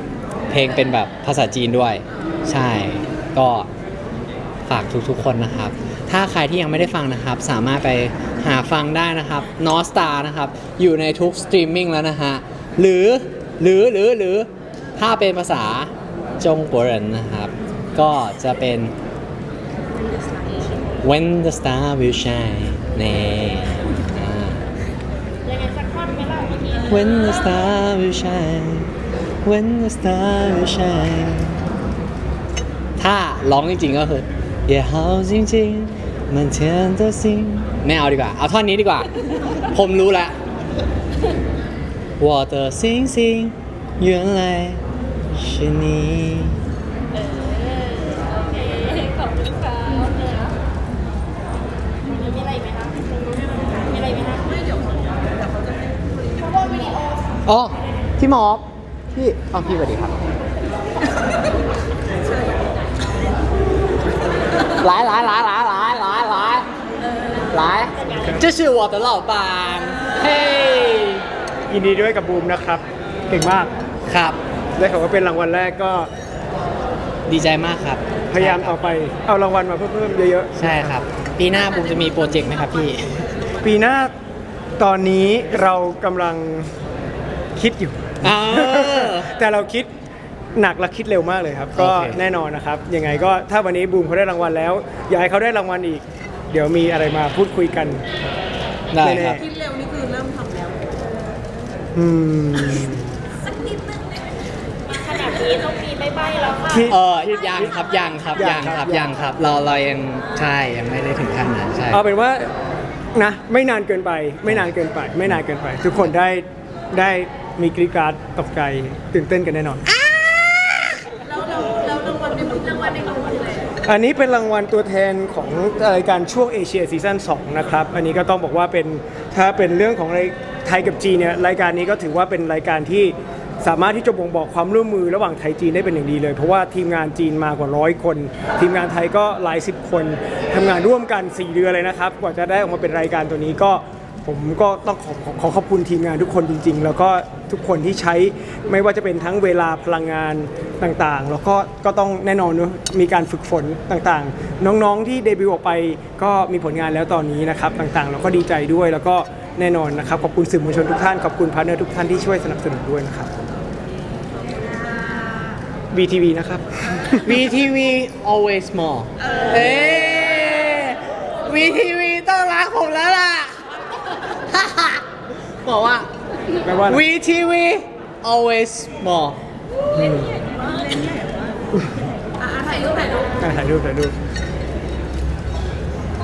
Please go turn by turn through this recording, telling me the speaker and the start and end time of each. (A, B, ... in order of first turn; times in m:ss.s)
0:00.5-0:03.7 A
0:04.7-0:18.9 A
0:21.0-0:24.6 A
0:25.4-0:27.5 B
0:26.9-0:28.9 A
0:29.4-0:31.6 A
0:33.0-0:39.1 A
0:39.7-0:40.4 A
0:42.2-0:44.8 A
0:45.3-0:46.6 A
0:47.1-0:50.5 B
0:52.0-0:55.3 B
0:55.6-0:56.3 C
0:56.4-0:57.2 B
0:57.4-1:00.2 A
1:04.8-1:06.7 A
1:07.5-1:11.2 A
1:08.0-1:08.3 B
1:11.7-1:13.7 D
1:14.1-1:14.4 A
1:14.8-1:16.1 D
1:17.3-1:18.8 A
1:18.3-1:20.9 D
1:20.6-1:23.2 A
1:23.6-1:24.1 D
1:24.8-1:26.7 D
1:27.6-1:29.9 D
1:28.2-1:29.3 A
1:30.5-1:38.0 D
1:31.7-1:32.2 A
1:38.9-1:39.4 A
1:38.9-1:39.5 D
1:39.6-1:40.8 C
1:41.9-1:43.1 D
1:44.9-1:46.8 B
1:46.7-1:47.8 D
1:46.8-1:52.0 A
1:48.3-1:49.1 D
1:51.9-1:52.5 D
1:53.1-1:59.8 D
2:01.4-2:03.6 C
2:03.8-2:43.3 D
2:45.9-2:47.4 D
2:47.2-2:53.6 A
2:54.4-2:55.0 A
2:55.6-2:56.1 A
2:56.6-2:57.0 D
2:56.8-2:59.4 A
2:59.9-3:00.4 D
3:03.4-3:04.2 D